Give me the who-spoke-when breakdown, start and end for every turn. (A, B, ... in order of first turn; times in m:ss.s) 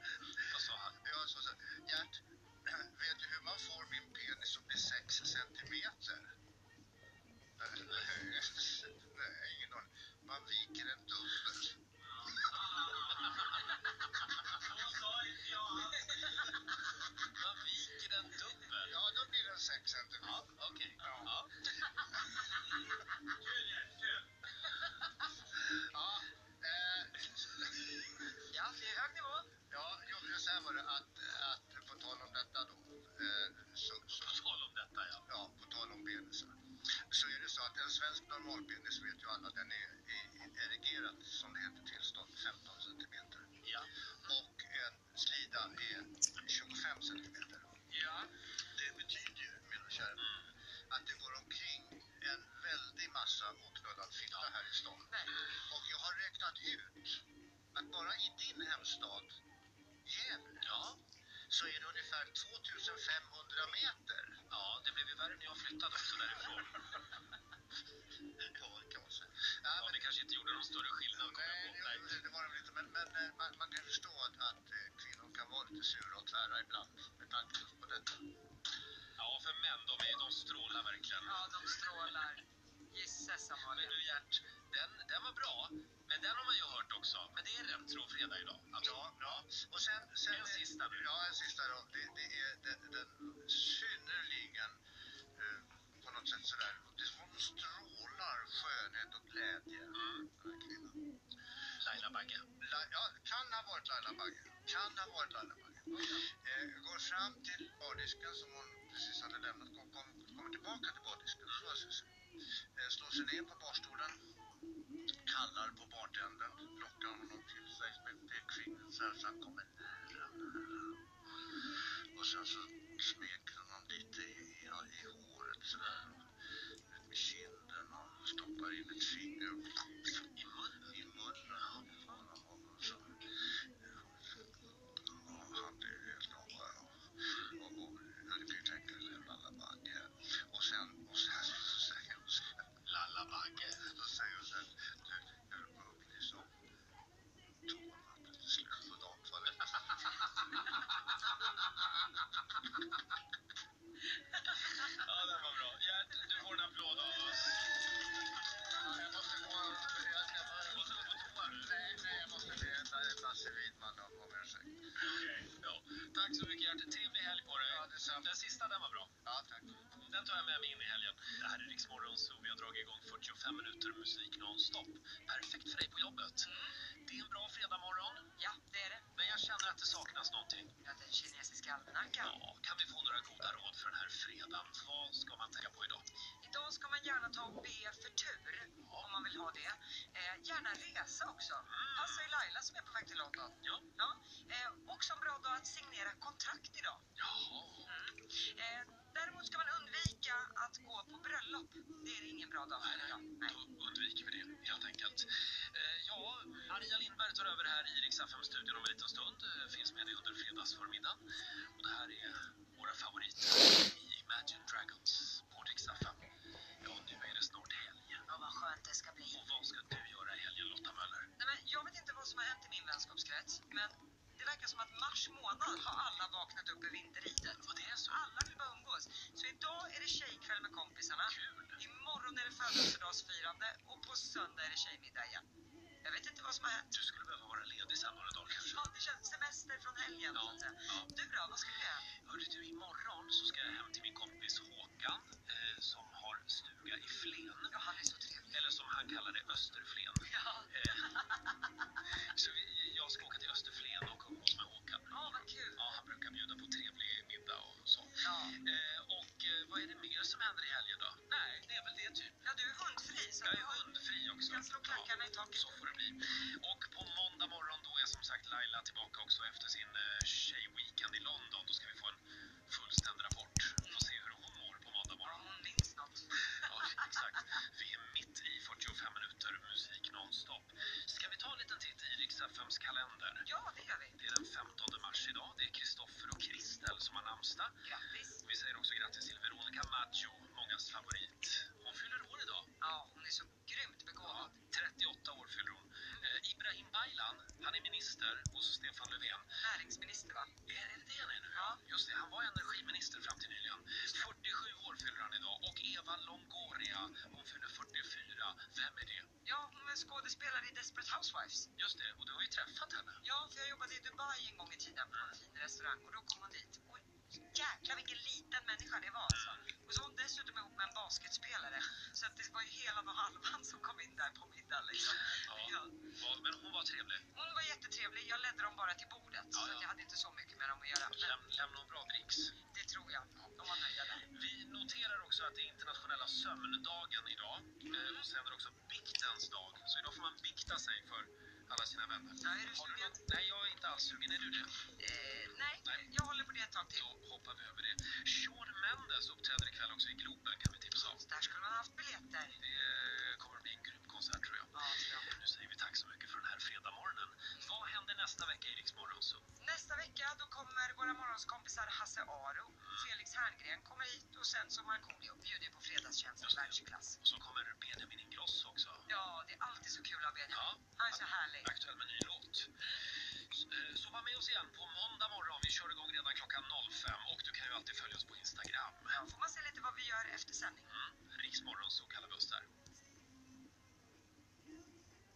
0:00.2-0:06.3 A
0:00.4-0:01.0 B
0:07.6-0:12.8 A
0:12.2-0:13.8 B
0:14.4-0:19.0 B
0:18.8-0:22.4 A
0:20.2-0:22.0 B
0:23.2-0:24.2 B
0:25.7-0:28.4 A
0:28.5-0:29.5 C
0:29.6-0:34.4 A
0:34.1-0:35.2 B
0:35.3-0:36.6 A
0:37.1-0:43.6 A
0:43.6-0:43.9 B
0:44.2-0:47.7 A
0:47.9-0:48.3 C
0:48.6-0:50.3 A
0:50.9-0:59.4 A
0:55.1-0:55.5 C
1:00.0-1:00.8 A
1:00.6-1:01.0 B
1:01.5-1:04.4 A
1:04.5-1:07.2 B
1:08.4-1:10.1 A
1:09.7-1:12.2 B
1:11.2-1:18.3 A
1:19.2-1:21.7 B
1:21.2-1:24.0 C
1:23.7-1:28.9 B
1:28.8-1:34.8 A
1:30.3-1:31.1 B
1:35.3-1:41.0 A
1:39.9-1:40.3 B
1:41.8-1:42.5 B
1:42.6-1:52.1 A
1:45.9-1:46.2 C
1:52.8-1:54.2 A
1:55.2-2:01.0 A
2:01.7-2:06.3 A
2:06.9-2:09.9 A
2:10.4-2:11.0 B
2:10.9-2:22.6 A
2:22.8-2:23.9 B
2:23.8-2:26.5 A
2:27.6-2:30.2 A
2:34.3-2:38.0 B
2:38.7-2:45.0 A
2:40.7-2:41.7 B
2:45.0-2:49.2 B
2:47.6-2:48.3 A
2:49.2-2:49.8 A
2:49.9-2:58.3 B
2:56.4-2:56.8 C
2:58.4-2:59.1 C
2:59.2-3:00.7 B
3:00.8-3:02.3 C
3:02.2-3:06.1 B
3:06.4-3:17.0 C
3:11.7-3:12.3 B
3:17.2-3:17.9 B
3:17.8-3:23.6 C
3:22.8-3:36.2 B
3:36.8-3:38.2 B
3:38.3-3:39.4 C
3:39.3-3:41.3 B
3:41.4-3:55.4 C
3:47.6-3:48.2 B
3:51.2-3:51.8 B
3:56.0-3:56.9 C
3:56.9-3:58.8 B
3:58.5-4:02.1 C
4:00.3-4:01.1 B
4:02.2-4:07.7 B
4:07.7-4:08.7 C
4:08.5-4:11.2 B
4:10.3-4:11.5 C
4:12.1-4:22.4 B
4:15.1-4:15.8 C
4:18.2-4:18.6 C
4:22.4-4:23.9 C
4:23.4-4:35.5 B
4:24.4-4:25.8 C
4:35.2-4:36.6 C
4:36.5-4:43.5 B
4:43.5-4:44.2 C
4:44.2-4:47.8 B
4:47.8-4:48.4 C
4:48.4-4:52.7 B
4:52.8-4:54.5 C
4:54.2-4:59.5 B
4:59.6-5:00.5 C
5:00.7-5:09.3 B
5:01.6-5:01.8 C
5:09.4-5:11.7 C
5:11.8-5:13.2 B
5:13.2-5:26.0 C
5:19.3-5:19.6 B
5:25.1-5:27.2 B
5:27.3-5:31.4 C
5:29.5-5:29.9 B
5:31.1-5:32.5 B
5:32.7-5:34.3 C
5:34.2-5:44.8 B
5:37.9-5:38.3 C
5:42.4-5:43.2 C
5:45.0-5:47.1 C
5:47.0-5:51.2 B
5:51.0-5:52.6 C
5:52.6-5:59.4 B
5:54.7-5:55.3 C
5:59.6-6:07.2 C
6:06.4-6:09.1 B
6:09.1-6:11.7 C
6:10.5-6:19.2 B
6:12.8-6:13.1 C
6:19.1-6:20.9 C
6:20.9-6:22.7 B